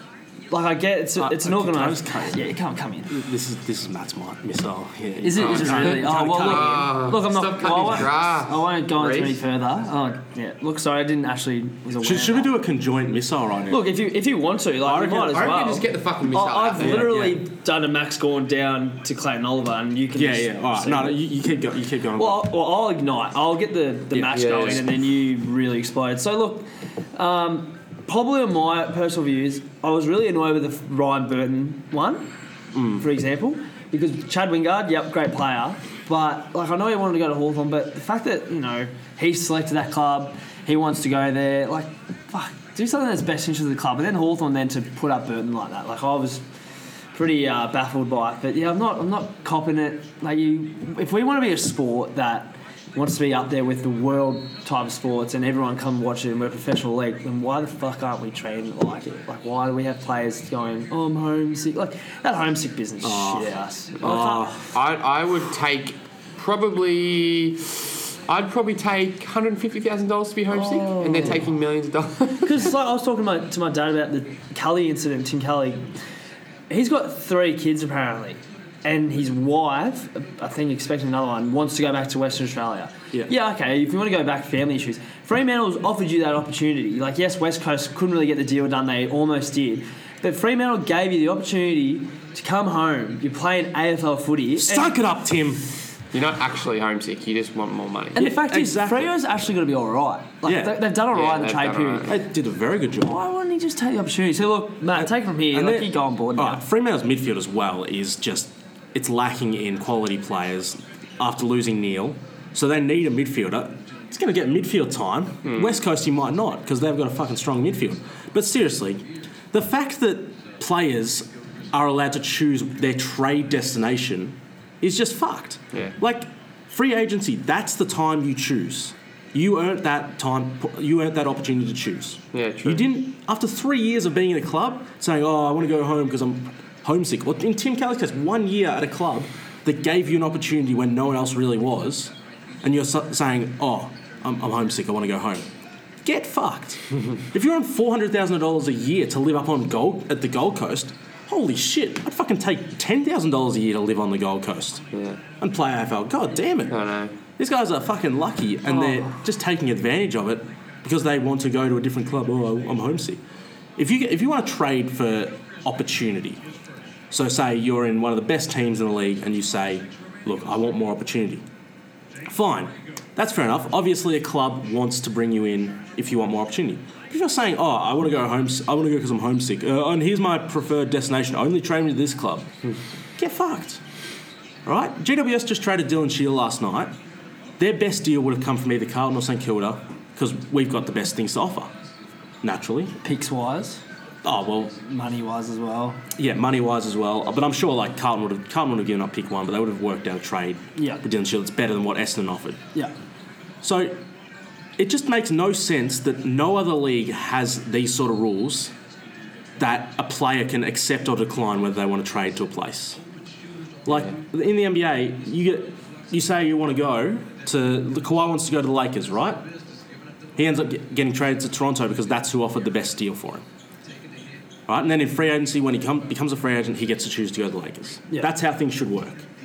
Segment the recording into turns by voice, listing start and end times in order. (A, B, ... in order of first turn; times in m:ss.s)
0:00.5-0:03.1 A
0:01.2-0:02.5 B
0:03.1-0:06.9 B
0:05.2-0:12.5 A
0:05.4-0:09.4 C
0:12.0-0:13.9 B
0:13.7-0:21.2 A
0:14.8-0:15.3 B
0:15.0-0:17.1 C
0:16.8-0:17.4 B
0:20.2-0:22.5 B
0:22.2-0:32.3 A
0:24.1-0:24.8 B
0:24.3-0:24.8 C
0:32.7-0:33.0 B
0:32.9-0:46.4 A
0:47.1-1:04.5 A
1:03.0-1:04.8 B
1:04.7-1:12.7 C
1:10.5-1:11.4 A
1:12.4-1:15.9 A
1:16.7-1:34.9 A
1:34.6-1:35.7 B
1:36.1-1:38.2 C
1:38.2-1:42.1 A
1:38.2-1:39.1 B
1:40.4-1:40.8 B
1:41.1-1:42.1 C
1:42.0-1:43.2 B
1:43.0-1:46.6 A
1:45.0-2:25.5 B
1:55.4-1:55.8 C
2:12.3-2:12.9 C
2:26.0-2:34.8 B
2:34.9-2:35.2 C
2:35.4-2:36.8 B
2:36.7-2:37.2 C
2:37.4-2:43.2 B
2:43.8-2:46.4 B
2:47.1-2:51.4 B
2:52.2-3:02.5 B
3:03.2-3:03.8 B
3:04.6-3:06.9 B
3:07.6-3:11.7 B
3:12.4-3:13.0 B
3:13.0-3:13.8 A
3:14.2-3:14.7 B
3:14.8-3:16.0 A
3:16.2-3:22.6 B
3:20.8-3:21.0 A
3:23.6-3:24.0 B
3:24.8-3:28.7 B
3:29.6-3:33.0 B
3:33.8-3:39.4 B
3:40.4-3:43.4 B
3:44.7-3:49.2 B